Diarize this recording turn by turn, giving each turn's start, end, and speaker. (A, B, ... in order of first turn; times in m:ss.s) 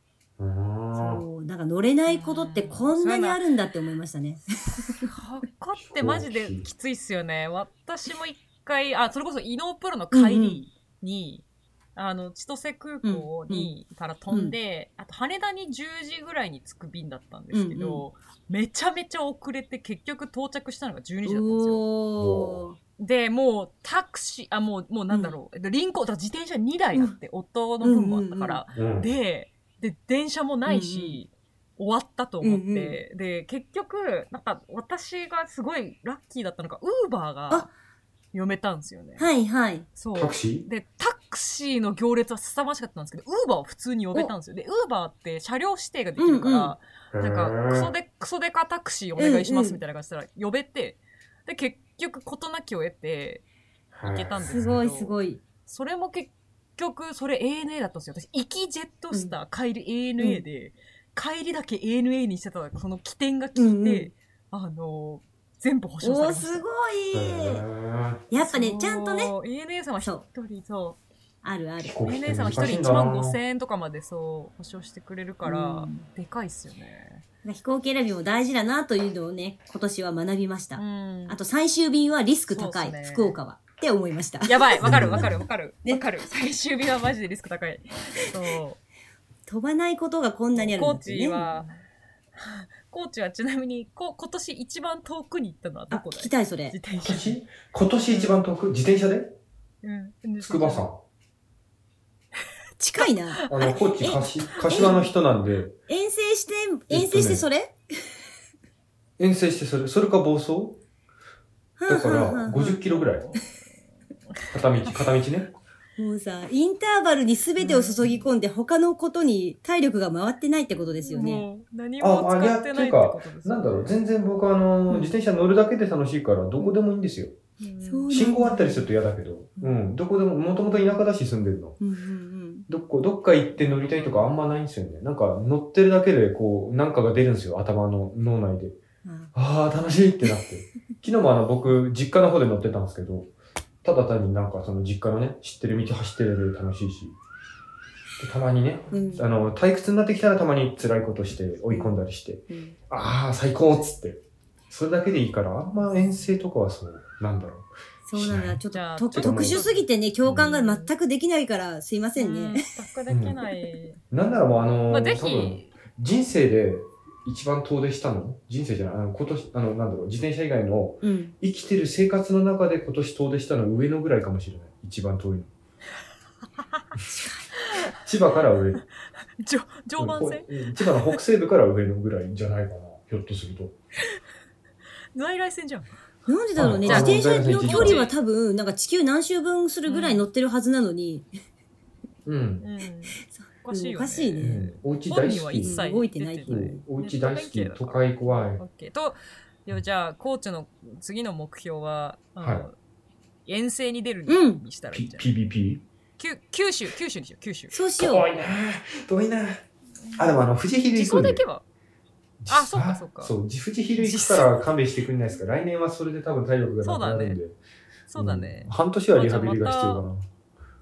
0:00.4-0:01.2 A
0:01.0-0:05.1 B
0:02.1-0:03.4 C
0:05.0-0:21.8 C
0:05.8-0:06.7 A
0:10.1-0:10.6 B
0:13.0-0:13.7 B
0:14.3-0:14.6 B
0:17.5-0:18.0 B
0:21.2-0:22.8 B
0:22.2-0:22.6 A
0:23.0-0:37.7 C
0:27.8-0:28.6 B
0:28.7-0:29.1 A
0:30.7-0:31.2 B
0:32.4-0:33.0 B
0:38.3-0:39.3 C
0:39.2-0:39.9 B
0:40.0-0:53.4 C
0:40.1-0:40.7 A
0:46.2-0:46.7 B
0:47.1-0:47.9 A
0:49.2-0:49.8 B
0:53.9-0:54.8 A
0:54.0-0:55.1 C
0:54.4-0:55.4 B
0:55.7-1:06.6 C
1:03.6-1:04.1 B
1:06.0-1:07.6 B
1:07.1-1:08.2 A
1:08.3-1:09.3 B
1:08.4-1:11.0 C
1:11.4-1:12.0 B
1:11.8-1:13.4 A
1:12.0-1:17.2 C
1:15.4-1:16.0 B
1:17.4-1:25.3 B
1:20.8-1:21.4 C
1:22.5-1:23.4 C
1:24.5-1:28.8 C
1:24.8-1:25.4 A
1:29.5-1:31.6 B
1:30.6-1:31.8 C
1:32.4-1:37.4 C
1:35.9-1:36.8 B
1:37.0-1:39.3 A
1:38.1-1:38.4 C
1:39.8-1:40.9 C
1:40.4-1:41.0 A
1:42.8-1:45.1 B
1:43.0-1:43.8 C
1:43.5-1:45.8 A
1:44.5-1:45.0 C
1:45.9-1:47.7 B
1:46.9-1:47.4 A
1:49.2-1:50.8 A
1:51.8-1:52.8 B
1:51.9-1:53.3 A
1:52.8-1:53.5 C
1:54.5-1:55.5 A
1:56.0-2:01.5 B
1:57.6-1:58.1 C
2:01.0-2:03.9 C
2:02.0-2:07.4 A
2:04.9-2:05.1 B
2:07.6-2:08.1 C
2:07.8-2:08.9 B
2:08.1-2:11.8 A
2:11.8-2:12.7 B
2:12.7-2:18.8 A
2:13.7-2:14.3 C
2:19.0-2:19.3 B
2:19.3-2:23.3 A
2:23.8-2:27.2 A
2:28.2-2:38.6 A
2:28.9-2:29.3 B
2:31.7-2:32.0 B
2:32.5-2:32.8 B
2:38.1-2:42.7 B
2:38.7-2:40.9 C
2:39.1-2:39.6 A
2:42.2-2:44.0 C
2:43.1-2:43.4 A
2:44.1-2:55.5 A
2:44.9-2:45.7 C
2:51.0-2:51.4 B
2:56.6-2:56.9 C
2:57.1-2:57.5 B
2:57.6-2:58.0 C
2:58.0-2:58.8 A
2:59.4-3:01.2 C
3:00.0-3:03.8 A
3:05.2-3:06.0 C
3:06.3-3:11.3 B
3:06.6-3:08.1 A
3:06.8-3:08.1 C
3:09.9-3:10.3 C
3:12.3-3:12.6 A
3:12.6-3:22.8 C
3:13.3-3:14.7 B
3:14.4-3:15.8 A
3:15.6-3:16.8 B
3:16.5-3:18.6 A
3:22.4-3:22.7 A
3:23.5-3:25.3 C
3:24.3-3:24.6 B
3:24.9-3:25.8 A
3:26.2-3:27.8 C
3:27.7-3:28.2 B
3:28.0-3:29.6 A
3:30.0-3:31.6 C
3:30.2-3:31.4 A
3:32.4-3:37.6 A
3:32.5-3:33.3 C
3:34.0-3:34.7 C
3:36.8-3:37.4 C
3:38.1-3:40.1 C
3:38.2-3:40.3 A